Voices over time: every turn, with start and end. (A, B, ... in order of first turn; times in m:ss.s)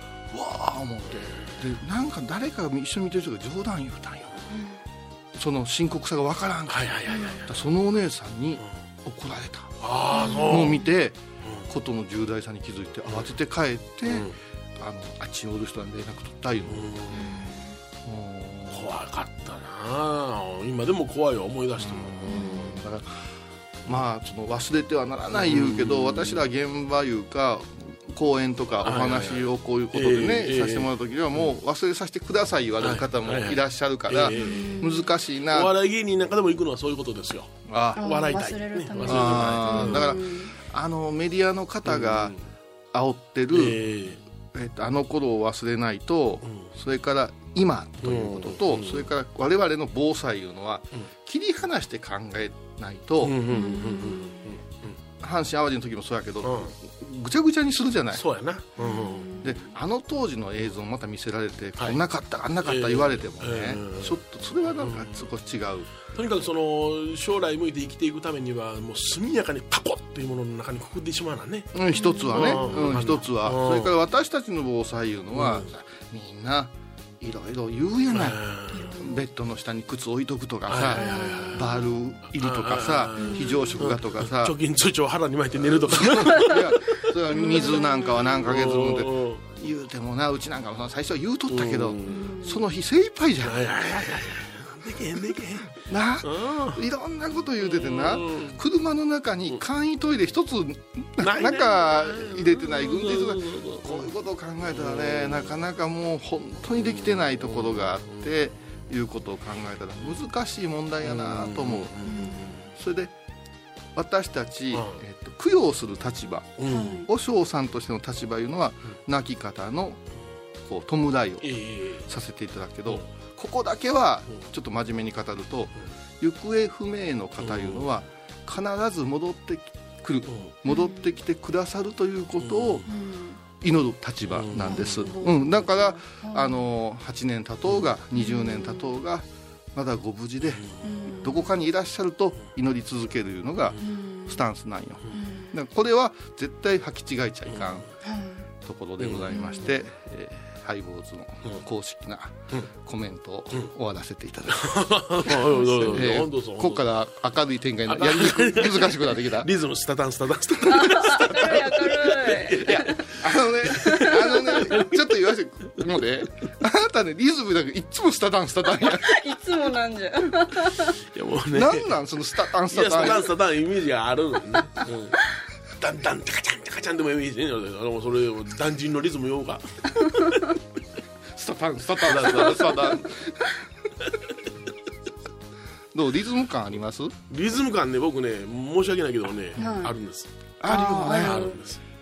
0:00.3-0:04.3 A
0:04.5-0:04.8 B
0:05.4-0:09.9 A
0:06.7-0:07.5 C
0:07.1-0:07.4 B
0:09.8-0:10.8 C
0:10.1-0:10.8 B
0:10.5-0:17.2 A
0:11.4-0:11.7 C
0:14.1-0:14.4 C
0:16.7-0:17.3 C
0:17.1-0:17.7 B
0:18.0-0:18.9 A
0:18.7-0:22.8 C
0:21.8-0:23.1 A
0:22.3-0:22.8 B
0:23.8-0:35.7 A
0:25.3-0:26.4 C
0:28.8-0:31.5 C
0:32.8-0:34.8 C
0:34.3-0:35.1 B
0:35.5-0:40.1 C
0:37.7-0:38.0 A
0:38.0-0:40.6 B
0:39.0-0:42.3 A
0:41.8-0:42.4 C
0:42.9-0:43.8 A
0:43.5-0:44.2 C
0:44.5-0:53.4 A
0:48.0-0:49.1 C
0:53.2-0:55.0 C
0:53.5-0:54.5 B
0:55.2-0:58.2 A
0:56.4-0:56.7 C
0:58.1-0:59.5 C
0:58.8-0:59.4 B
0:59.4-1:05.9 A
1:02.6-1:05.2 C
1:06.1-1:11.7 C
1:11.7-1:18.4 A
1:12.0-1:12.7 B
1:12.3-1:13.9 C
1:15.3-1:15.7 C
1:18.1-1:18.9 C
1:18.7-1:19.2 B
1:18.9-1:24.6 A
1:20.7-1:21.7 C
1:21.0-1:21.9 B
1:22.3-1:26.7 C
1:23.2-1:23.8 B
1:25.6-1:33.7 A
1:27.3-1:27.8 C
1:27.3-1:28.3 B
1:28.4-1:29.4 C
1:31.5-1:32.3 C
1:32.1-1:32.6 B
1:33.4-1:36.8 C
1:35.8-1:51.9 A
1:37.6-1:38.6 C
1:41.2-1:44.1 C
1:44.7-1:45.6 C
1:46.8-1:48.3 C
1:51.0-1:52.7 C
1:52.0-1:52.5 B
1:52.8-1:53.1 A
1:53.9-2:00.0 A
1:54.7-1:55.0 C
1:56.6-1:57.0 C
1:56.7-1:57.1 B
2:00.6-2:01.5 A
2:01.4-2:02.0 C
2:02.0-2:12.8 A
2:07.4-2:07.9 C
2:10.3-2:10.5 C
2:10.6-2:11.1 B
2:12.4-2:12.9 C
2:12.9-2:13.4 B
2:13.6-2:27.9 A
2:14.3-2:15.1 C
2:14.7-2:16.6 B
2:18.1-2:18.9 B
2:20.5-2:20.8 C
2:20.8-2:21.4 B
2:23.8-2:24.4 B
2:25.1-2:25.5 B
2:27.5-2:27.8 C
2:28.0-2:28.4 B
2:28.6-2:39.5 A
2:29.0-2:29.4 C
2:29.3-2:29.7 B
2:34.5-2:37.0 C
2:35.5-2:35.9 B
2:37.9-2:43.1 C
2:40.6-2:43.0 B
2:41.4-2:41.7 A
2:42.6-2:49.2 A
2:43.7-2:44.1 B
2:43.8-2:45.0 C
2:48.8-2:50.9 B
2:51.1-2:52.0 C
2:51.5-2:53.3 A
2:52.7-2:55.2 C
2:55.8-3:00.5 C
3:01.3-3:03.4 A
3:02.0-3:02.8 C
3:05.9-3:07.1 A
3:07.3-3:10.3 C
3:09.6-3:09.9 B
3:10.6-3:11.6 A
3:10.7-3:11.6 B
3:11.2-3:11.8 C